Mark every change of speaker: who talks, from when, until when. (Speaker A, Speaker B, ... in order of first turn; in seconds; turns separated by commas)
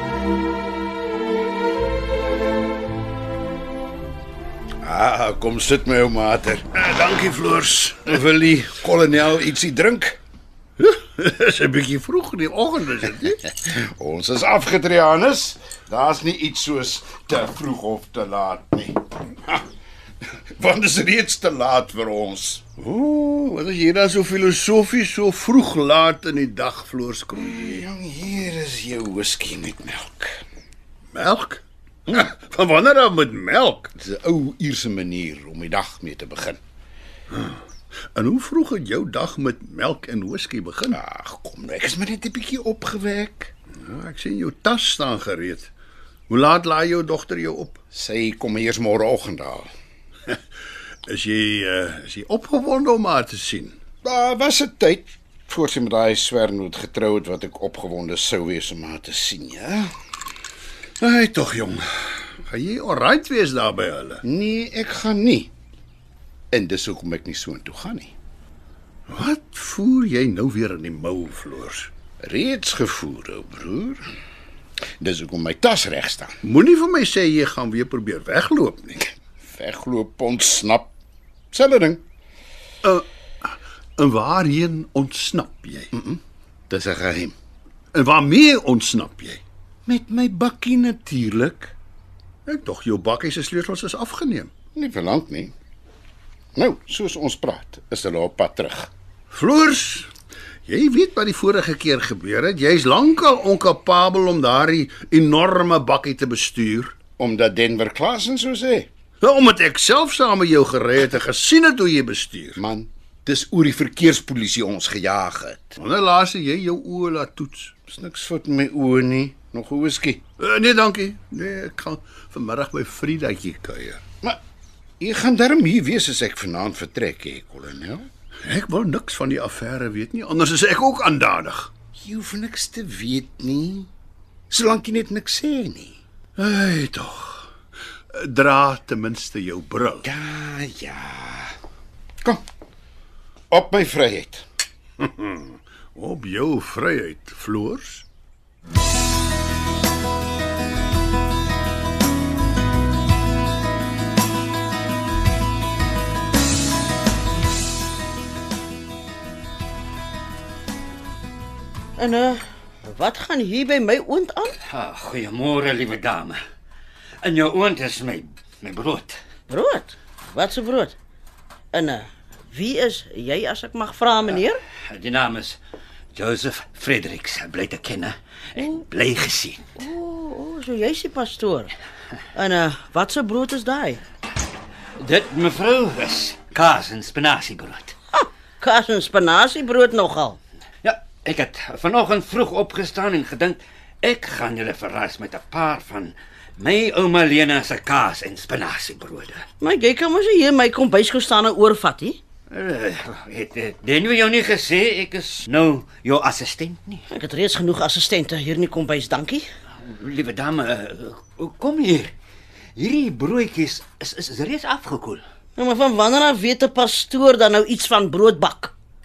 Speaker A: 4.8-6.7, Speaker B: 6.8-8.1, Speaker A: 8.1-10.2, Speaker B: 10.8-13.4, Speaker A: 13.7-19.6, Speaker A: 20.4-22.6, Speaker B: 22.8-27.8, Speaker A: 27.4-30.4, Speaker B: 31.1-33.9, Speaker A: 34.0-36.6, Speaker B: 37.3-37.6, Speaker B: 38.1-41.0, Speaker A: 40.9-43.5, Speaker B: 43.8-45.7, Speaker B: 46.3-47.8, Speaker A: 47.9-49.7, Speaker B: 51.1-53.8, Speaker A: 54.0-59.9, Speaker B: 61.0-64.2, Speaker A: 64.2-65.5, Speaker A: 66.5-68.1, Speaker B: 69.1-71.9, Speaker A: 72.2-74.0, Speaker A: 75.0-76.4, Speaker B: 76.4-79.1, Speaker A: 79.4-80.9, Speaker A: 81.5-82.0, Speaker B: 82.8-85.9, Speaker A: 85.9-87.3, Speaker B: 87.9-89.4, Speaker A: 89.9-91.7, Speaker B: 92.5-94.5, Speaker A: 94.7-95.5, Speaker A: 96.6-98.9, Speaker B: 99.3-100.1, Speaker B: 100.7-107.0, Speaker A: 107.2-108.9, Speaker B: 109.2-112.6, Speaker A: 112.6-115.8, Speaker B: 115.8-117.7, Speaker A: 117.9-120.2, Speaker B: 120.4-124.0, Speaker A: 125.0-128.1, Speaker B: 128.4-131.7, Speaker A: 131.9-133.9, Speaker A: 134.5-136.0, Speaker B: 136.4-137.5, Speaker B: 138.1-140.1, Speaker A: 140.0-141.5, Speaker A: 143.5-144.5, Speaker B: 145.0-148.1, Speaker C: 162.0-164.6, Speaker D: 164.7-166.4, Speaker D: 167.2-169.2, Speaker C: 169.5-171.0, Speaker C: 171.7-174.6, Speaker D: 174.3-175.6, Speaker D: 176.1-179.6, Speaker C: 179.8-181.7, Speaker C: 182.3-184.0, Speaker D: 185.0-187.9, Speaker C: 188.1-190.4, Speaker D: 190.8-199.4, Speaker C: 199.6-202.2, Speaker D: 202.5-207.1, Speaker C: 207.1-209.5, Speaker D: 209.7-212.1, Speaker D: 212.8-215.2, Speaker C: 215.6-218.7